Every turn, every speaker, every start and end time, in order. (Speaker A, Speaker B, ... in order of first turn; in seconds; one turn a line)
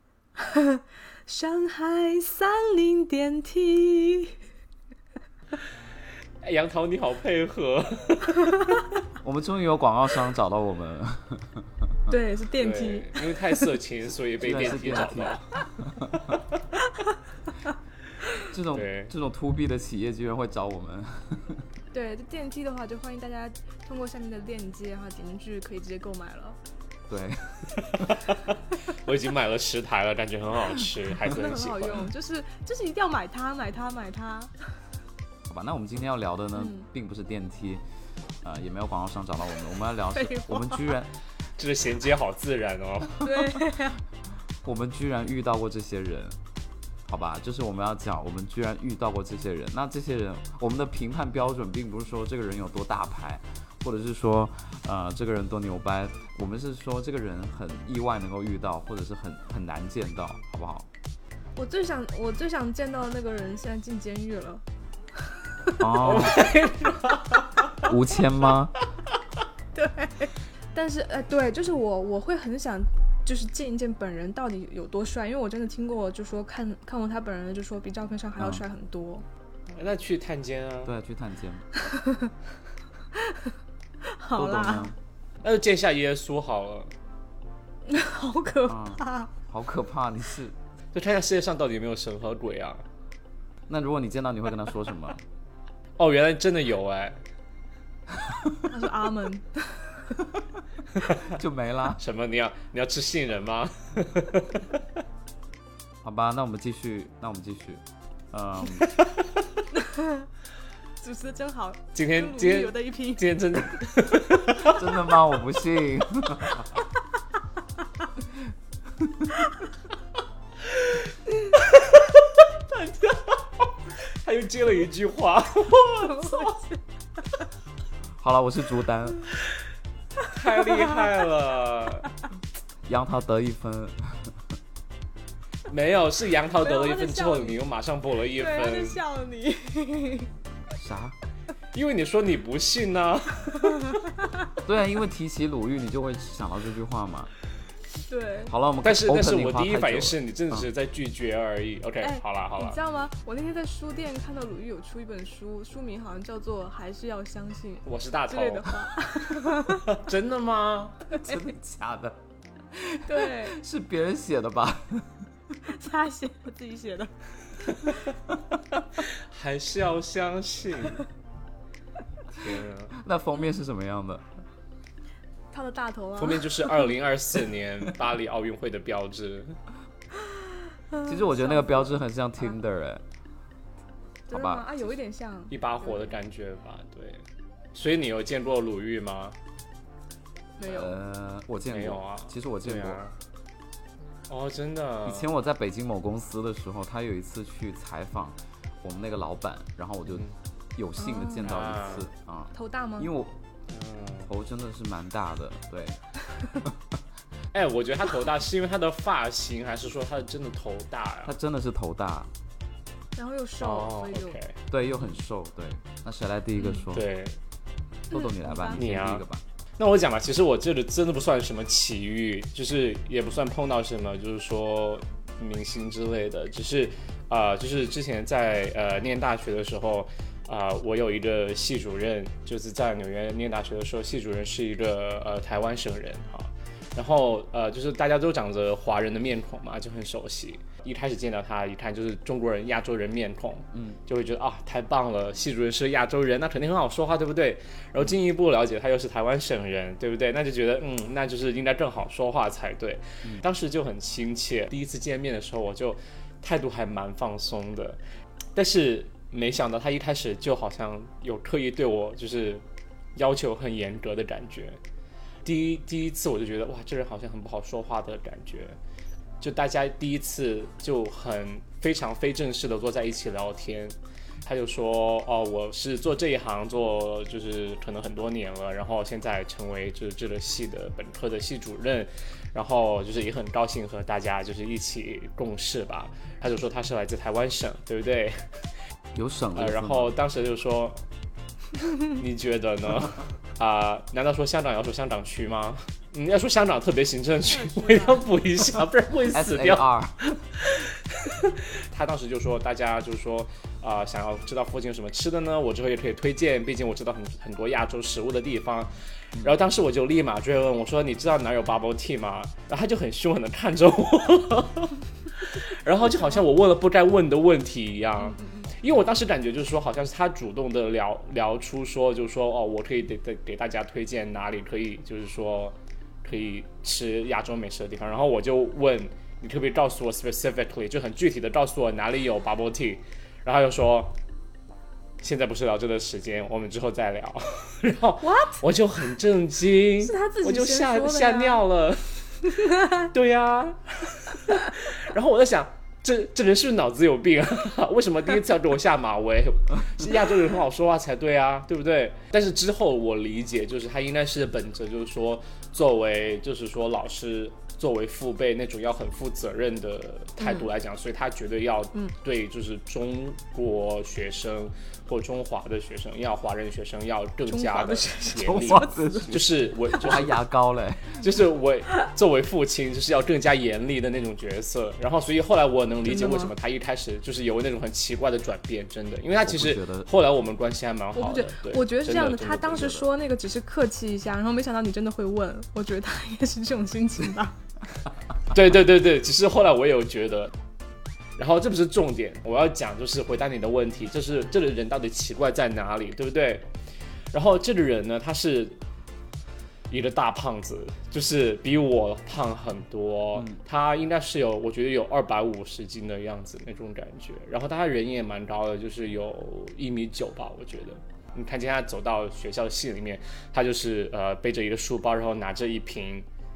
Speaker A: 0.4-4.4
Speaker B: 6.4-8.6
Speaker C: 9.2-12.1
Speaker A: 12.1-13.6
Speaker B: 12.6-15.6
Speaker C: 14.4-16.3
Speaker C: 18.4-21.6
Speaker B: 18.7-19.1
Speaker A: 21.9-26.6
Speaker C: 27.1-28.1
Speaker B: 27.8-32.1
Speaker A: 31.3-34.7
Speaker C: 35.5-37.8
Speaker A: 36.5-36.9
Speaker C: 38.4-41.1
Speaker A: 40.1-40.9
Speaker B: 41.6-43.4
Speaker A: 43.2-44.0
Speaker C: 44.6-46.4
Speaker C: 47.0-60.9
Speaker A: 61.5-64.6
Speaker A: 65.2-65.8
Speaker C: 65.8-66.4
Speaker B: 66.0-67.8
Speaker C: 67.8-68.7
Speaker A: 69.7-79.2
Speaker C: 78.4-78.6
Speaker B: 79.7-80.9
Speaker C: 80.8-81.7
Speaker A: 81.8-82.3
Speaker A: 83.2-84.9
Speaker C: 84.3-84.9
Speaker B: 85.4-86.9
Speaker A: 87.9-89.3
Speaker C: 88.7-90.5
Speaker B: 90.9-92.8
Speaker C: 93.7-95.2
Speaker B: 96.0-97.2
Speaker C: 98.2-98.5
Speaker A: 98.7-100.2
Speaker B: 101.0-101.2
Speaker C: 101.2-102.0
Speaker B: 102.0-104.7
Speaker C: 106.0-108.9
Speaker A: 109.7-110.2
Speaker A: 111.0-113.6
Speaker B: 111.9-114.8
Speaker C: 114.7-116.7
Speaker C: 119.0-119.3
Speaker B: 120.7-126.6
Speaker A: 126.0-126.7
Speaker C: 128.2-129.2
Speaker B: 130.3-132.1
Speaker C: 132.9-134.3
Speaker B: 135.7-139.0
Speaker A: 136.6-137.6
Speaker A: 138.3-140.3
Speaker C: 140.8-141.2
Speaker B: 141.7-144.0
Speaker C: 144.6-147.3
Speaker A: 148.1-148.5
Speaker C: 148.5-150.7
Speaker B: 148.8-152.8
Speaker A: 152.0-159.9
Speaker B: 157.8-158.9
Speaker B: 159.6-161.1
Speaker C: 161.1-162.2
Speaker A: 161.2-161.5
Speaker C: 162.7-165.2
Speaker A: 163.1-163.6
Speaker A: 165.6-167.1
Speaker B: 167.6-168.1
Speaker B: 168.8-171.1
Speaker B: 172.3-172.9
Speaker C: 172.9-174.2
Speaker A: 175.5-176.9
Speaker B: 176.2-179.6
Speaker A: 180.9-182.0
Speaker C: 181.0-183.0
Speaker C: 184.3-184.7
Speaker A: 184.3-186.1
Speaker B: 185.5-189.3
Speaker A: 190.6-191.0
Speaker C: 190.6-193.0
Speaker B: 191.7-193.1
Speaker B: 194.3-195.2
Speaker C: 195.1-200.2
Speaker C: 200.8-203.3
Speaker A: 201.0-201.5
Speaker B: 201.4-202.1
Speaker A: 202.5-203.1
Speaker B: 203.7-204.3
Speaker C: 204.2-206.0
Speaker C: 206.5-207.0
Speaker B: 207.5-211.3
Speaker C: 211.2-212.3
Speaker A: 213.2-214.4
Speaker B: 213.6-214.6
Speaker C: 214.7-217.1
Speaker B: 216.9-217.4
Speaker C: 218.1-219.4
Speaker A: 218.1-218.8
Speaker B: 218.7-219.2
Speaker B: 219.8-258.0
Speaker C: 243.7-244.0
Speaker B: 258.5-262.6
Speaker B: 263.1-264.8
Speaker B: 265.4-268.8
Speaker B: 269.4-288.4
Speaker C: 289.1-290.1
Speaker B: 289.5-291.0
Speaker B: 292.0-299.8
Speaker A: 297.5-298.2
Speaker C: 299.3-300.2
Speaker B: 300.6-334.1
Speaker A: 318.2-318.7
Speaker B: 335.2-342.2
Speaker A: 338.2-338.6
Speaker A: 340.0-341.6
Speaker A: 342.5-343.1
Speaker B: 343.1-370.3
Speaker A: 360.4-360.7
Speaker A: 367.5-369.3
Speaker C: 368.4-371.2
Speaker B: 371.2-383.1
Speaker A: 376.1-376.5
Speaker C: 379.4-380.1
Speaker A: 381.1-387.5
Speaker B: 388.5-390.5
Speaker B: 391.4-396.7
Speaker B: 397.3-398.8
Speaker B: 399.9-416.2